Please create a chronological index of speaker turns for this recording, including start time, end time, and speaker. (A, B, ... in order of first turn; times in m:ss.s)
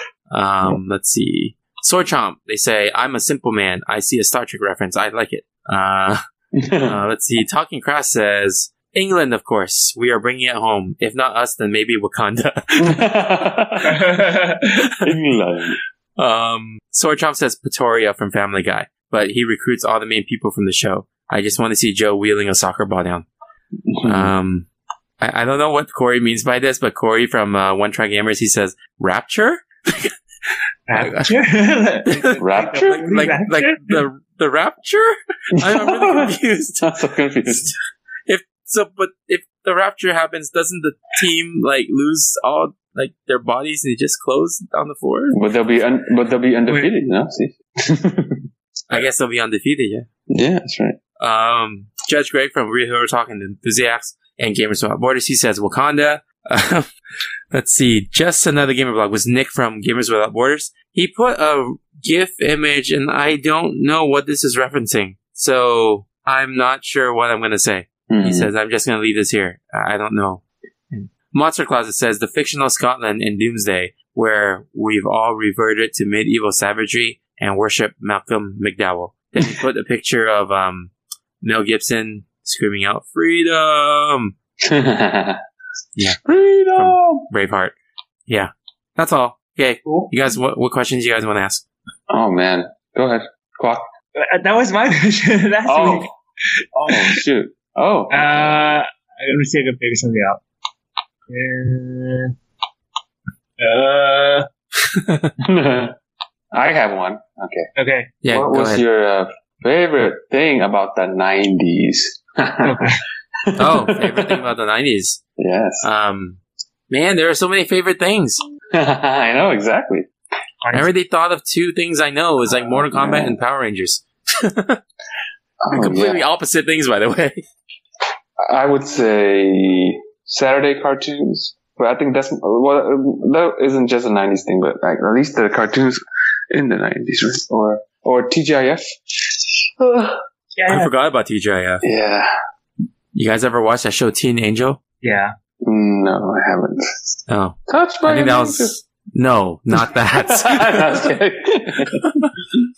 0:00.3-0:06.2 A
0:06.5-0:07.0 B
0:06.8-0:12.9 A
0:12.8-0:14.1 B
0:13.8-0:14.7 C
0:15.0-0:15.8 B
0:16.2-0:23.2 A
0:23.9-0:24.3 B
0:24.0-0:24.7 A
0:25.2-0:30.1 A
0:30.9-0:34.0 C
0:30.9-0:31.3 A
0:32.1-0:36.9 A
0:32.4-0:33.1 B
0:35.5-0:37.7 B
0:38.3-0:45.4 A
0:45.3-0:49.0 B
0:46.7-0:46.9 C
0:48.9-0:50.1 A
0:50.3-0:51.0 B
0:51.2-0:56.9 A
0:57.5-1:24.3 A
1:08.1-1:08.5 B
1:24.6-1:25.4 B
1:26.2-1:27.3 B
1:26.8-1:27.8 A
1:28.3-1:31.6 A
1:29.8-1:30.1 C
1:32.1-1:33.9 B
1:34.2-1:36.1 C
1:35.6-1:36.1 B
1:36.7-1:38.8 B
1:36.9-1:37.2 C
1:38.1-1:40.4 C
1:41.3-1:42.3 C
1:43.6-1:44.5 C
1:45.4-1:45.9 B
1:46.5-1:47.7 B
1:47.8-1:48.2 C
1:48.2-1:48.8 A
1:48.3-1:54.4 B
1:52.6-1:53.0 C
1:53.6-1:55.2 A
1:55.4-1:55.8 B
1:55.8-1:58.4 A
1:58.7-2:00.1 B
2:00.6-2:00.9 C
2:00.7-2:04.8 A
2:02.5-2:03.4 B
2:05.6-2:06.2 B
2:05.7-2:07.4 A
2:08.4-2:20.2 B
2:20.5-2:20.9 C
2:20.7-2:21.8 A
2:21.8-2:22.3 B
2:23.1-2:24.8 A
2:25.0-2:25.3 C
2:25.6-2:27.1 B
2:27.3-2:30.9 A
2:27.7-2:28.8 B
2:29.8-2:32.1 B